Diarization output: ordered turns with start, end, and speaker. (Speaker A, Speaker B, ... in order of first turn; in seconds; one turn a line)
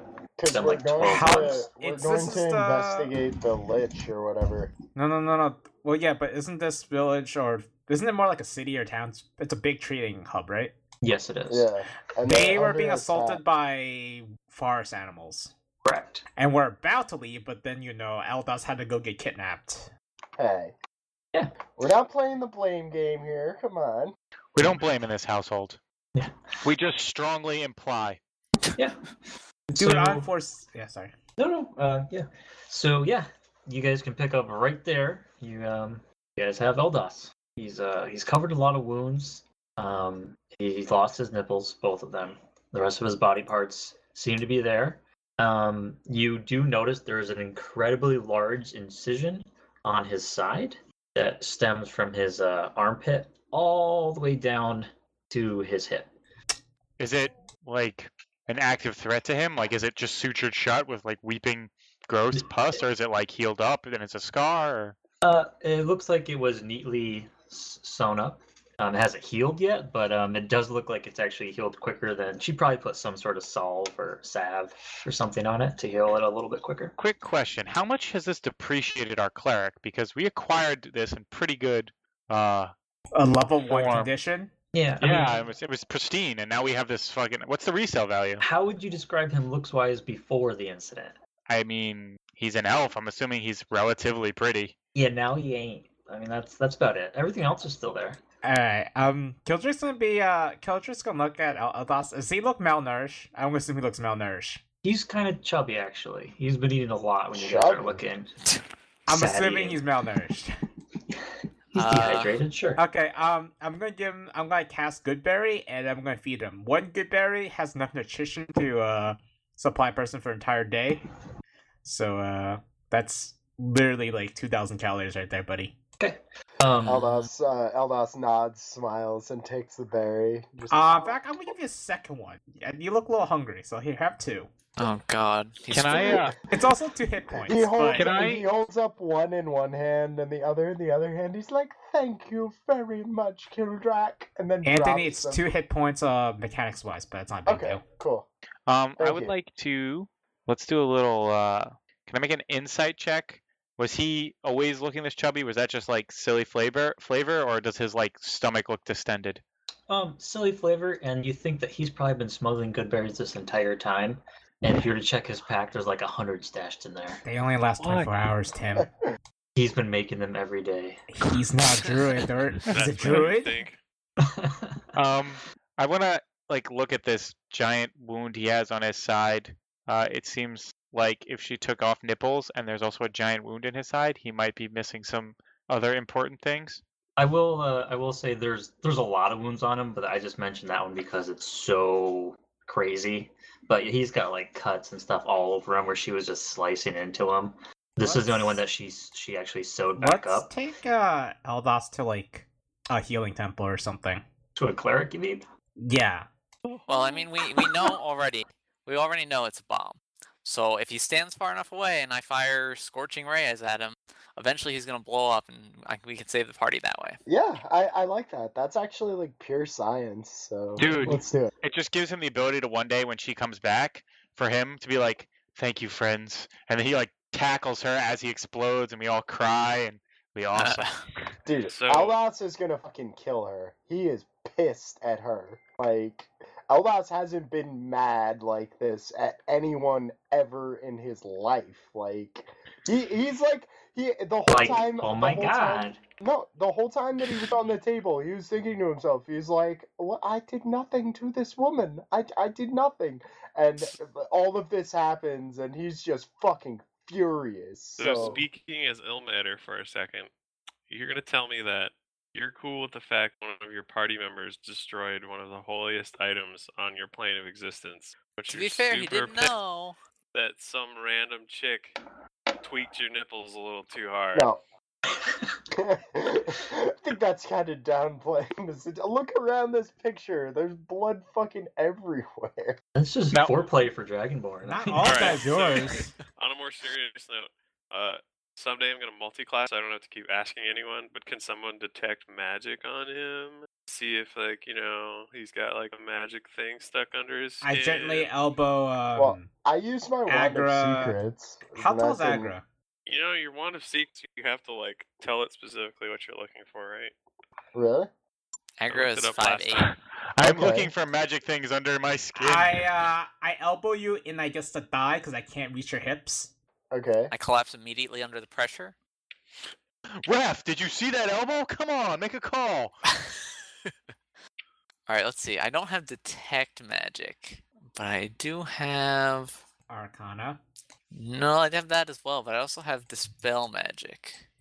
Speaker A: 0.4-4.7
Speaker B: 0.5-1.6
Speaker C: 1.1-3.1
Speaker C: 4.9-10.7
Speaker B: 11.0-11.7
Speaker A: 11.5-13.4
Speaker C: 12.2-15.5
Speaker B: 15.8-16.2
Speaker C: 16.4-19.9
Speaker A: 20.4-20.7
Speaker A: 21.8-24.1
Speaker D: 24.5-25.8
Speaker D: 26.6-28.2
Speaker B: 28.7-29.0
Speaker B: 29.7-30.3
Speaker C: 29.7-31.1
Speaker B: 31.4-56.1
Speaker D: 57.0-64.9
Speaker B: 62.3-62.8
Speaker B: 65.2-76.9
Speaker D: 77.0-82.7
Speaker C: 83.1-84.5
Speaker D: 83.6-84.1
Speaker B: 84.7-85.4
Speaker D: 85.0-88.4
Speaker B: 88.4-91.2
Speaker D: 91.5-94.7
Speaker B: 94.9-98.2
Speaker C: 98.4-104.6
Speaker B: 104.8-108.3
Speaker A: 107.3-108.0
Speaker C: 109.0-110.5
Speaker B: 109.1-109.8
Speaker B: 111.1-112.8
Speaker E: 111.8-112.3
Speaker C: 112.8-121.0
Speaker C: 121.8-125.7
Speaker B: 126.0-127.3
Speaker A: 126.8-131.2
Speaker C: 130.7-134.5
Speaker E: 134.8-136.1
Speaker D: 135.7-136.3
Speaker C: 136.5-138.1
Speaker A: 137.4-145.4
Speaker D: 137.9-138.4
Speaker C: 144.6-147.8
Speaker A: 147.5-148.3
Speaker D: 148.7-159.4
Speaker A: 149.0-149.3
Speaker B: 159.9-167.2
Speaker C: 167.2-168.9
Speaker D: 167.8-168.1
Speaker B: 169.5-171.0
Speaker C: 171.1-173.7
Speaker F: 172.7-173.8
Speaker D: 172.8-173.1
Speaker B: 174.2-174.8
Speaker D: 174.9-186.8
Speaker B: 187.2-200.5
Speaker C: 198.0-198.6
Speaker C: 200.0-204.2
Speaker B: 204.6-205.4
Speaker C: 205.8-206.3
Speaker E: 206.9-217.2
Speaker A: 217.3-221.5
Speaker D: 220.8-230.9
Speaker E: 230.5-231.0
Speaker A: 231.4-258.4
Speaker F: 231.7-232.2
Speaker B: 244.5-246.0
Speaker F: 258.0-260.3
Speaker F: 260.9-269.5
Speaker E: 268.5-269.9
Speaker F: 270.3-272.0
Speaker F: 272.6-274.5
Speaker A: 275.7-282.8
Speaker B: 282.9-285.4
Speaker C: 284.6-286.1
Speaker F: 285.0-298.3
Speaker C: 297.6-299.5
Speaker A: 299.1-302.5
Speaker C: 300.3-301.2
Speaker C: 301.7-302.6
Speaker F: 303.1-307.1
Speaker A: 307.7-308.1
Speaker E: 308.8-309.9
Speaker F: 308.9-309.8
Speaker D: 309.8-312.9
Speaker A: 310.4-310.9
Speaker C: 312.4-316.5
Speaker A: 316.9-317.3
Speaker E: 317.3-318.9
Speaker D: 320.2-323.0
Speaker E: 325.1-329.6
Speaker C: 329.9-330.6
Speaker E: 331.1-334.4